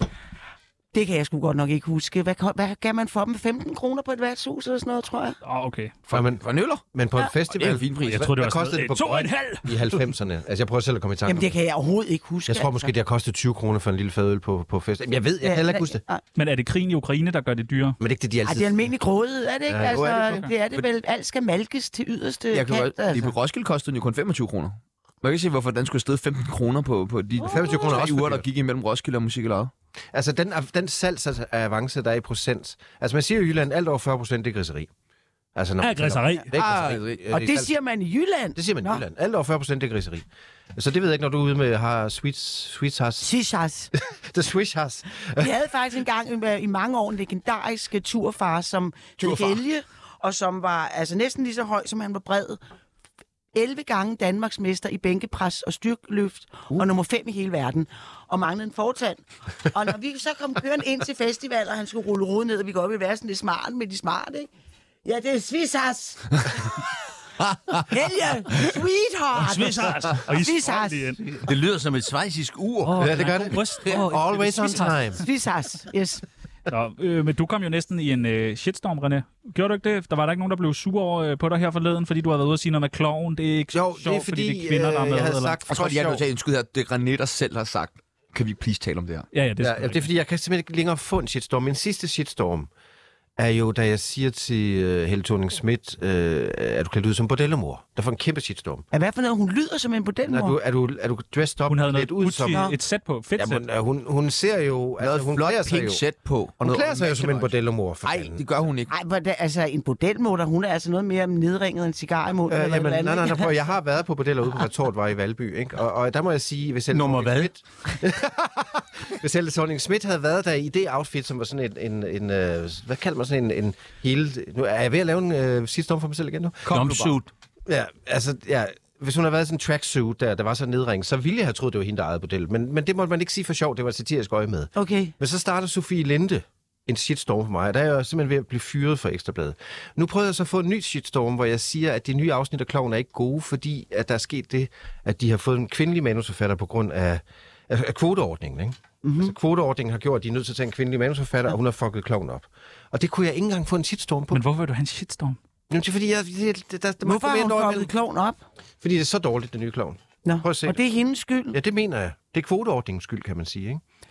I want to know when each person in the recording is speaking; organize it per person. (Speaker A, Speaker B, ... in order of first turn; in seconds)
Speaker A: 0.9-5.4, 11.2-12.9, 15.4-16.2, 18.4-23.3, 27.4-27.9, 37.3-39.0, 43.2-43.9, 45.4-52.6, 53.5-64.5, 65.0-66.7, 67.9-71.1, 75.2-76.2, 98.9-100.6, 102.5-102.8, 108.9-113.5, 134.8-135.1, 149.0-149.3, 157.0-158.4, 160.2-161.6
Speaker B: 5.4-5.9, 8.0-10.0, 16.3-18.0, 35.8-36.5, 69.3-71.2, 72.8-75.2, 76.7-85.6, 89.3-90.1, 101.7-103.6, 154.3-155.4
Speaker C: 6.1-6.8, 7.5-8.3, 22.5-29.7, 36.5-37.2, 49.2-49.6, 67.5-67.9, 85.7-89.2, 105.0-107.5, 108.0-108.9, 126.6-127.2
Speaker D: 6.1-11.5, 12.5-16.0, 18.0-18.9, 19.7-20.4, 27.4-28.4, 30.1-34.9, 35.5-37.7, 38.5-43.3, 44.0-45.5, 73.0-75.2, 83.7-86.2, 89.6-92.7, 93.4-98.8, 100.2-102.7, 103.3-106.0, 106.6-108.4, 112.5-126.7, 127.7-154.4, 155.7-157.9, 158.8-160.8, 161.5-163.8
Speaker E: 71.2-73.2, 116.9-117.5, 126.7-127.3